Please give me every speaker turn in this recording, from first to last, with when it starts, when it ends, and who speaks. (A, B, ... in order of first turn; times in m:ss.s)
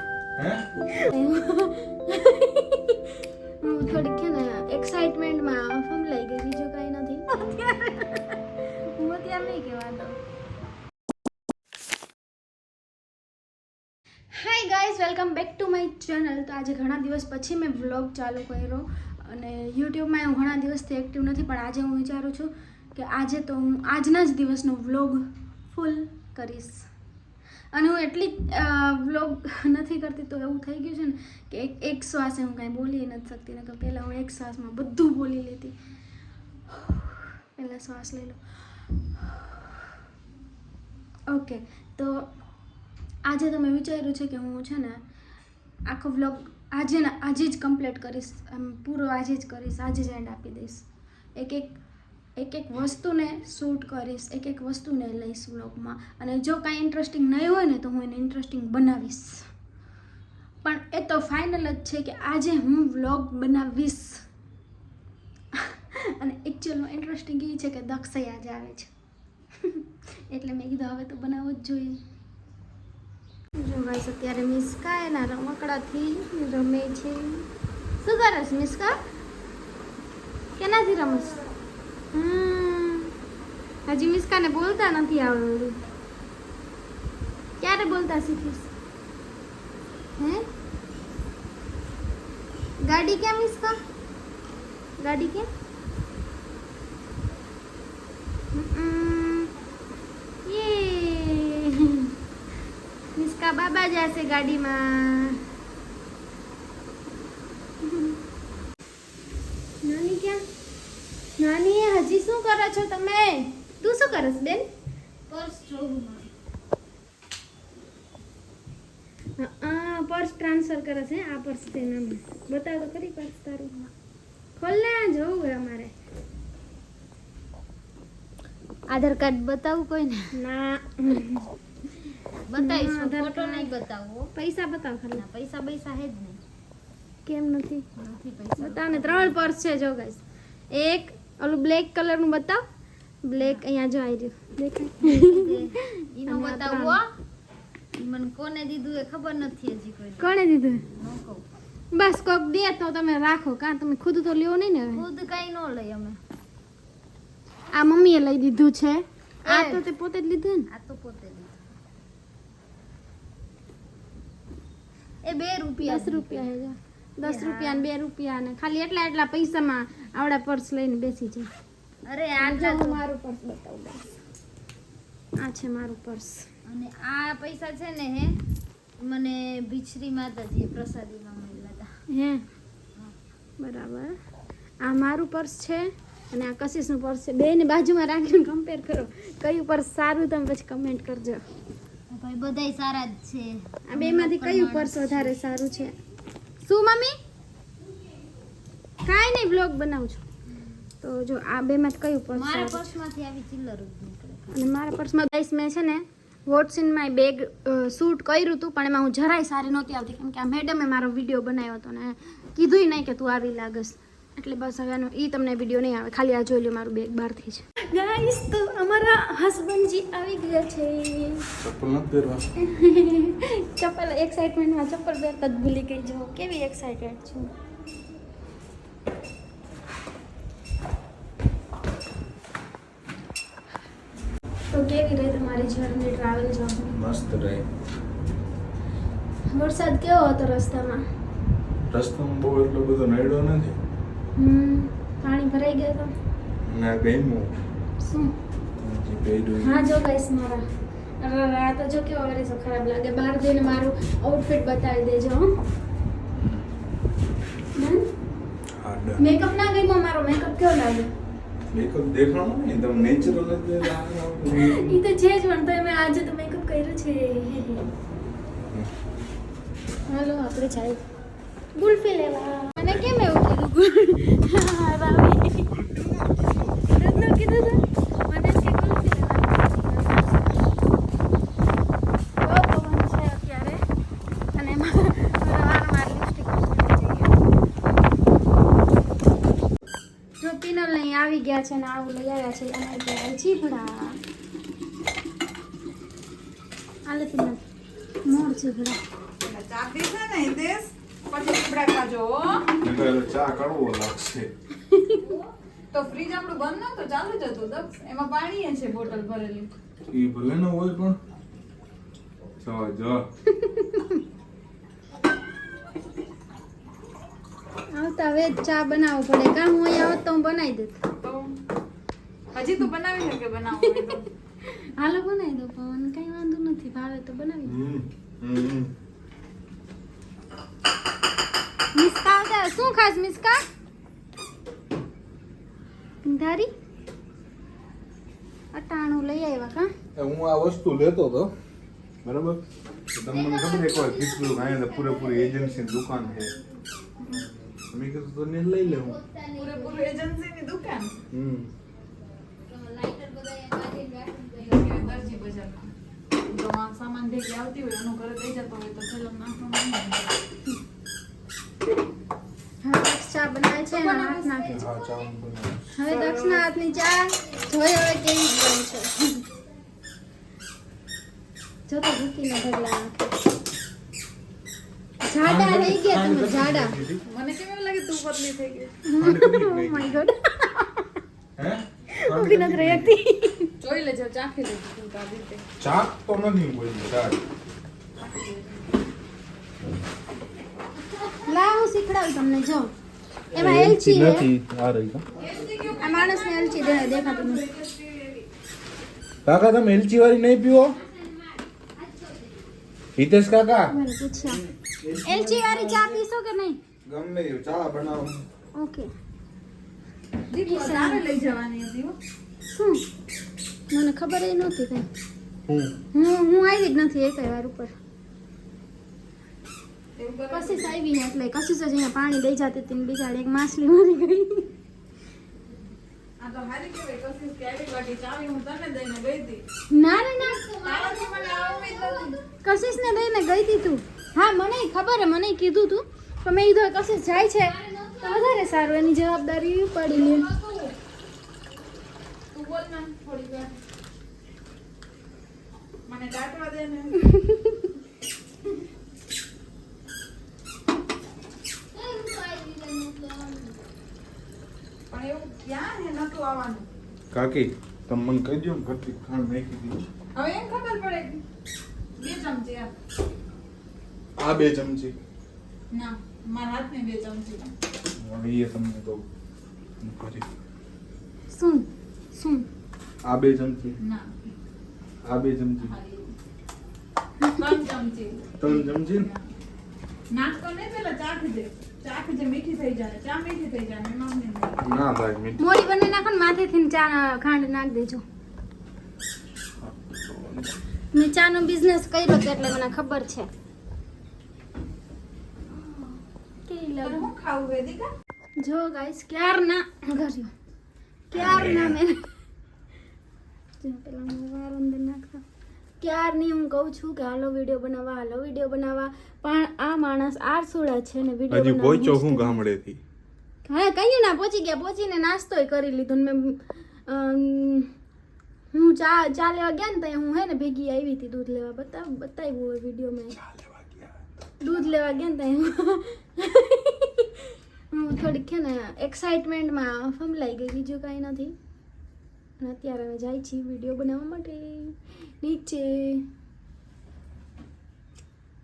0:00.4-0:00.7 A
0:00.9-0:03.0 B
0:03.6-0:10.2 B
0:14.3-0:26.9 B
0:27.7-0:35.8 B
0:36.7-0:38.4 B
0:41.3-0:42.3 B
0:43.2-0:45.0 B
0:45.9-0:51.8 B
0:52.4-0:59.5 B
1:00.6-1:04.2 B
1:05.7-1:08.9 B
1:09.7-1:12.0 B
1:13.6-1:17.4 B
1:18.0-1:19.0 B
1:20.6-1:21.5 B
1:22.1-1:23.1 B
1:23.9-1:25.8 B
1:27.6-1:28.7 B
1:30.2-1:30.5 B
1:32.8-1:33.8 B
1:35.0-1:35.5 B
1:38.5-1:39.5 B
1:40.5-1:42.1 B
1:43.2-1:45.4 B
1:47.8-1:48.2 B
1:49.8-1:50.4 B
1:51.4-1:54.7 B
1:55.3-1:56.3 C
1:59.4-2:03.9 B
2:04.6-2:06.0 B
2:08.9-2:10.4 C
2:10.3-2:11.5 B
2:12.5-2:14.3 C
2:12.6-2:13.7 B
2:14.3-2:15.2 B
2:15.1-2:16.4 C
2:17.2-2:17.9 B
2:18.0-2:19.5 C
2:18.6-2:22.6 B
2:23.2-2:27.0 B
2:25.0-2:27.0 C
2:28.0-2:31.4 C
2:30.2-2:30.8 B
2:31.9-2:35.0 B
2:34.9-2:36.2 C
2:37.7-2:40.7 B
2:39.4-2:39.8 C
2:40.7-2:41.6 C
2:45.2-2:46.5 C
2:45.8-2:51.5 B
2:47.2-2:47.9 C
2:52.1-2:53.0 C
2:52.4-2:54.0 B
2:55.4-2:56.5 B
2:56.7-2:58.3 C
2:59.0-3:01.9 C
3:02.1-3:02.4 B
3:03.6-3:04.2 B
3:04.8-3:11.4 B
3:12.1-3:15.4 C
3:13.9-3:16.0 B
3:16.6-3:17.2 B
3:19.0-3:20.2 B
3:21.0-3:22.8 B
3:22.3-3:24.5 C
3:24.5-3:41.5 B
3:41.6-3:42.4 A
3:42.6-3:47.5 B
3:54.7-3:56.9 B
3:56.9-3:57.7 A
3:59.5-4:01.0 B
4:01.9-4:03.8 A
4:04.4-4:06.1 B
4:06.6-4:07.5 A
4:08.0-4:08.3 B
4:08.8-4:09.7 A
4:09.6-4:10.7 B
4:11.2-4:15.5 B
4:16.4-4:16.6 A
4:17.8-4:18.0 B
4:18.8-4:19.2 A
4:19.2-4:21.1 B
4:21.7-4:25.0 A
4:24.5-4:27.9 B
4:30.1-4:31.0 B
4:31.8-4:35.7 B
4:35.7-4:37.0 A
4:36.9-4:40.6 B
4:42.4-4:43.8 B
4:44.6-4:47.4 B
4:50.4-4:54.2 B
4:57.1-4:57.6 B
4:58.2-4:59.0 B
4:59.4-5:02.7 D
5:02.8-5:04.5 A
5:04.9-5:05.3 B
5:05.9-5:09.7 D
5:10.1-5:11.2 A
5:12.6-5:13.2 A
5:13.5-5:14.2 B
5:17.9-5:21.0 B
5:21.2-5:21.6 D
5:22.5-5:24.3 D
5:23.8-5:24.1 B
5:24.6-5:27.8 B
5:27.7-5:28.9 A
5:32.0-5:33.6 B
5:36.2-5:36.7 B
5:38.7-5:39.9 B
5:40.2-5:41.5 A
5:42.2-5:42.6 A
5:43.1-5:46.5 A
5:43.3-5:46.6 C
5:47.3-5:49.2 A
5:48.8-5:50.1 C
5:49.6-5:51.2 D
5:51.3-5:51.7 A
5:52.6-5:55.5 C
5:54.6-5:55.9 D
5:56.5-6:00.4 D
6:02.8-6:04.8 B
6:03.9-6:04.7 D
6:04.7-6:05.9 A
6:04.7-6:05.3 C
6:06.0-6:09.4 B
6:06.1-6:06.7 D
6:11.9-6:13.4 B
6:15.2-6:17.0 B
6:15.4-6:17.2 A
6:17.3-6:18.9 D
6:19.1-6:21.1 B
6:19.2-6:20.2 A
6:21.6-6:23.2 A
6:22.2-6:23.7 B
6:23.8-6:25.6 D
6:25.8-6:27.4 A
6:28.2-6:29.0 D
6:31.4-6:32.9 B
6:33.5-6:35.3 A
6:33.5-6:34.5 B
6:35.4-6:38.5 D
6:36.0-6:37.7 B
6:39.4-6:41.0 A
6:41.0-6:42.6 C
6:43.2-6:43.9 A
6:43.9-6:44.6 B
6:44.5-6:46.2 A
6:45.2-6:46.8 B
6:47.1-6:48.4 A
6:48.8-6:49.1 B
6:50.5-6:52.2 D
6:50.6-6:51.2 B
6:52.7-6:53.0 B
6:53.9-6:55.1 B
6:55.7-6:56.0 A
6:56.1-6:57.9 B
7:00.2-7:01.0 D
7:00.5-7:04.7 B
7:06.4-7:09.6 D
7:09.9-7:10.6 B
7:10.3-7:12.5 C
7:10.8-7:12.4 D
7:12.6-7:20.5 B
7:17.5-7:18.6 C
7:20.5-7:20.9 D
7:22.5-7:23.7 D
7:26.1-7:27.4 D
7:31.9-7:33.9 C
7:35.1-7:36.9 D
7:37.3-7:40.0 A
7:40.4-7:41.4 D
7:42.2-7:42.9 D
7:44.4-7:45.2 A
7:45.9-7:47.7 D
7:48.2-7:49.2 A
7:50.0-7:50.5 A
7:51.5-7:52.7 B
7:53.2-7:54.0 A
7:54.0-7:54.6 D
7:55.2-7:55.9 A
7:55.8-7:56.3 D
7:57.4-7:57.7 B
7:57.6-7:59.5 D
7:58.6-7:59.3 A
8:00.3-8:04.8 D
8:04.8-8:05.7 A
8:05.6-8:08.2 B
8:09.8-8:10.8 A
8:11.1-8:13.5 B
8:16.7-8:17.3 B
8:17.0-8:18.1 D
8:18.6-8:20.5 B
8:21.3-8:22.2 B
8:21.4-8:22.0 A
8:23.8-8:25.4 B
8:26.0-8:32.6 B
8:31.5-8:33.0 A
8:33.6-8:37.9 B
8:38.7-8:43.4 B
8:43.3-8:44.3 A
8:44.6-8:47.4 B
8:47.9-8:51.6 B
8:52.6-8:56.3 B